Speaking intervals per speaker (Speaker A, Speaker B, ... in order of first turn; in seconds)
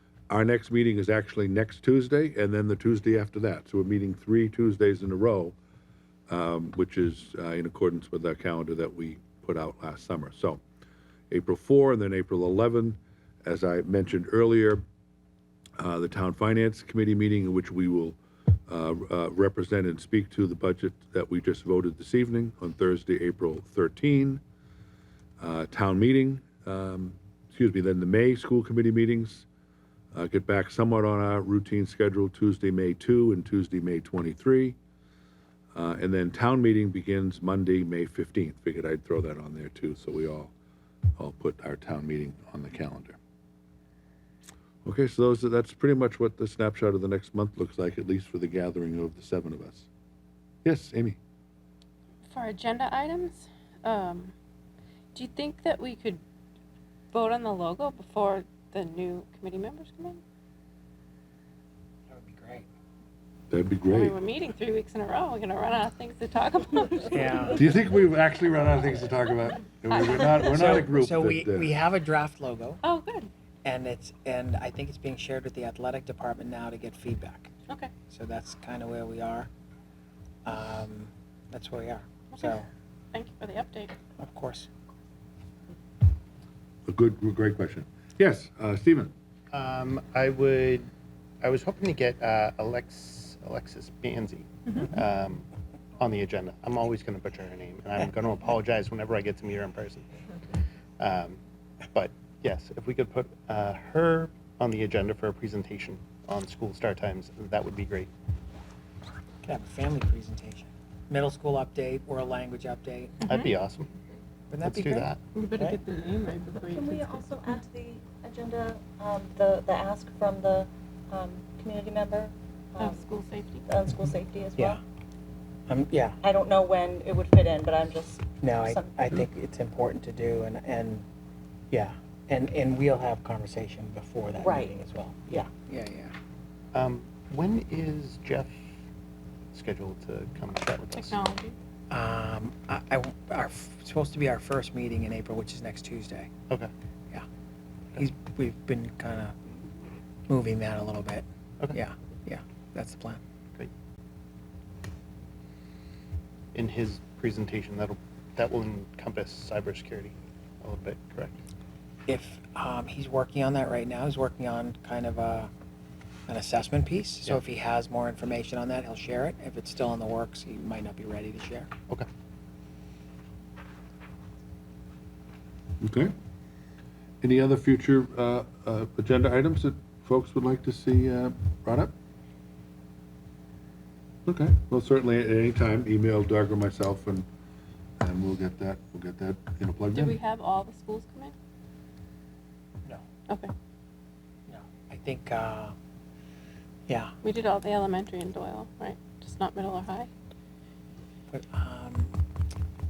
Speaker A: 0.3-5.5, 6.3-10.6, 11.3-14.8, 15.8-18.2, 18.7-24.4, 25.4-29.4, 30.1-34.8, 35.7-40.5, 41.2-43.2, 44.8-49.9, 50.6-51.2, 63.5-64.2, 67.5-71.7, 86.9-89.1, 175.8-176.1, 177.2-181.9, 184.2-187.3, 188.0-190.2
Speaker B: 52.3-54.3, 55.1-56.2, 57.1-60.2, 63.9-67.3, 72.8-73.3, 83.1-83.9, 115.3-117.3, 122.8-123.6, 140.9-141.6, 189.9-191.3, 197.2-200.1
Speaker C: 62.1-62.6, 67.1-67.6, 70.4-72.8, 73.6-77.5, 78.1-79.5, 80.4-82.7, 84.2-84.7, 109.4-113.2, 114.5-115.8, 125.7-126.2, 128.4-131.0, 131.7-136.1, 141.9-146.3, 147.9-149.3, 150.3-153.2, 162.1-165.5, 166.3-171.7, 194.5-195.7, 196.9-197.1, 201.3-202.1
Speaker D: 89.5-90.9, 91.4-100.1, 101.0-101.4, 101.9-108.1, 113.3-113.9, 114.6-115.2, 136.7-138.5, 139.5-141.2, 156.5-161.4
Speaker E: 116.6-123.1, 123.7-124.8, 126.2-129.2, 134.4-134.7